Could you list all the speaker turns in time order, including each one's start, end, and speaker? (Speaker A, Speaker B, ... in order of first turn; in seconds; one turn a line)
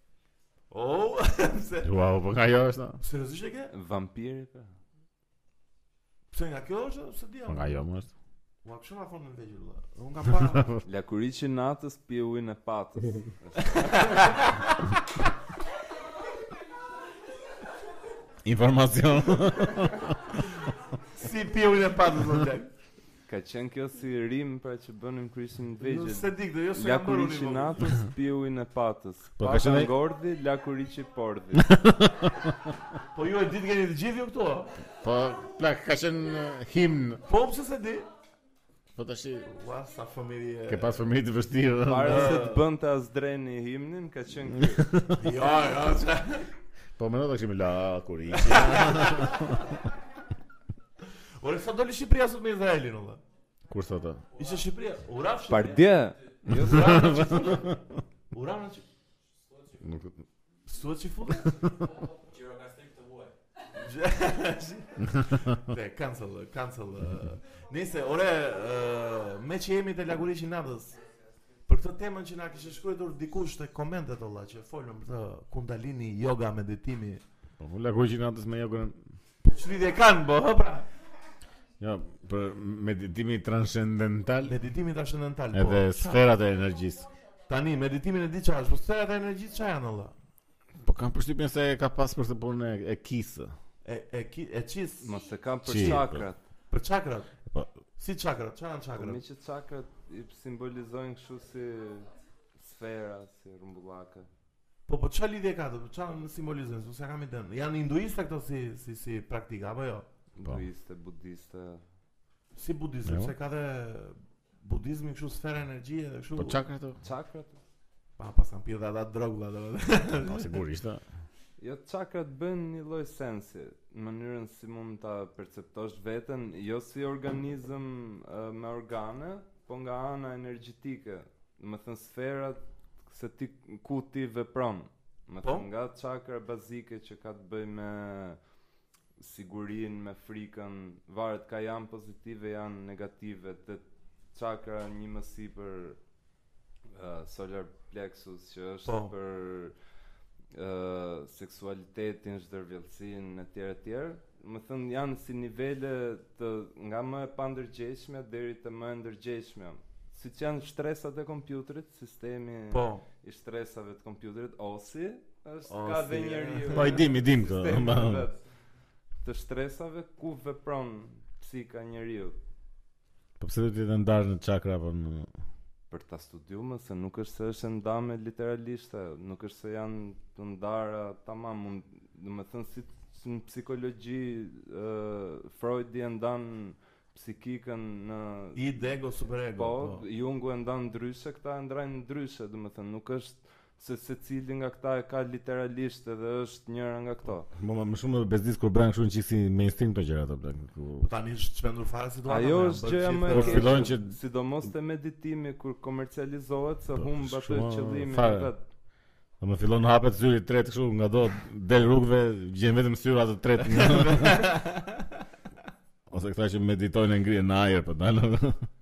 Speaker A: 0.7-1.9
Speaker B: 1.8-3.0
Speaker A: 3.0-3.7
Speaker C: 3.7-4.8
Speaker A: 6.3-7.8
Speaker B: 7.5-8.1
Speaker A: 8.6-10.8
Speaker C: 10.8-14.3
Speaker A: 13.8-14.8
Speaker B: 18.4-20.4
Speaker A: 21.1-22.7
Speaker C: 23.3-31.7
Speaker A: 25.8-27.8
Speaker B: 29.4-29.9
Speaker B: 31.6-32.7
Speaker A: 33.1-34.7
Speaker B: 35.0-37.2
Speaker A: 37.2-38.1
Speaker B: 39.0-39.6
Speaker A: 39.5-41.1
Speaker B: 40.7-42.4
Speaker C: 41.8-44.9
Speaker A: 42.0-42.6
Speaker B: 44.7-45.2
Speaker A: 45.2-46.5
Speaker B: 47.0-49.7
Speaker A: 48.3-49.5
Speaker A: 51.4-53.2
Speaker B: 53.7-54.2
Speaker A: 54.3-56.0
Speaker C: 55.5-57.5
Speaker B: 56.5-57.7
Speaker A: 56.5-57.8
Speaker A: 58.3-58.9
Speaker B: 59.8-60.2
Speaker A: 60.7-61.8
Speaker A: 63.7-71.0
Speaker A: 71.7-77.2
Speaker B: 77.6-79.0
Speaker A: 79.4-80.9
Speaker B: 81.8-84.6
Speaker A: 84.5-86.2
Speaker B: 85.5-87.1
Speaker A: 87.5-90.2
Speaker B: 90.8-93.5
Speaker A: 93.8-95.2
Speaker C: 95.0-96.4
Speaker B: 95.7-96.2
Speaker A: 95.7-96.0
Speaker A: 96.7-97.3
Speaker A: 98.0-99.2
Speaker C: 99.0-104.3
Speaker A: 104.9-110.1
Speaker C: 110.4-111.8
Speaker A: 112.6-116.6
Speaker B: 113.1-113.3
Speaker B: 116.4-117.0
Speaker C: 117.0-117.6
Speaker A: 118.2-120.6
Speaker B: 120.2-121.0
Speaker C: 121.6-138.4
Speaker C: 139.2-146.0
Speaker C: 146.9-149.8
Speaker A: 148.9-149.1
Speaker C: 150.5-168.4
Speaker A: 162.7-163.1
Speaker A: 165.7-167.0
Speaker B: 166.7-168.3
Speaker C: 169.2-172.4
Speaker B: 173.4-175.3
Speaker C: 175.9-188.6
Speaker A: 188.6-190.0
Speaker C: 189.6-197.5
Speaker B: 197.5-201.1
Speaker A: 201.0-203.9
Speaker C: 202.3-208.6
Speaker B: 203.3-204.1
Speaker B: 207.0-208.5
Speaker B: 209.4-214.5
Speaker A: 213.6-215.2
Speaker B: 216.1-218.7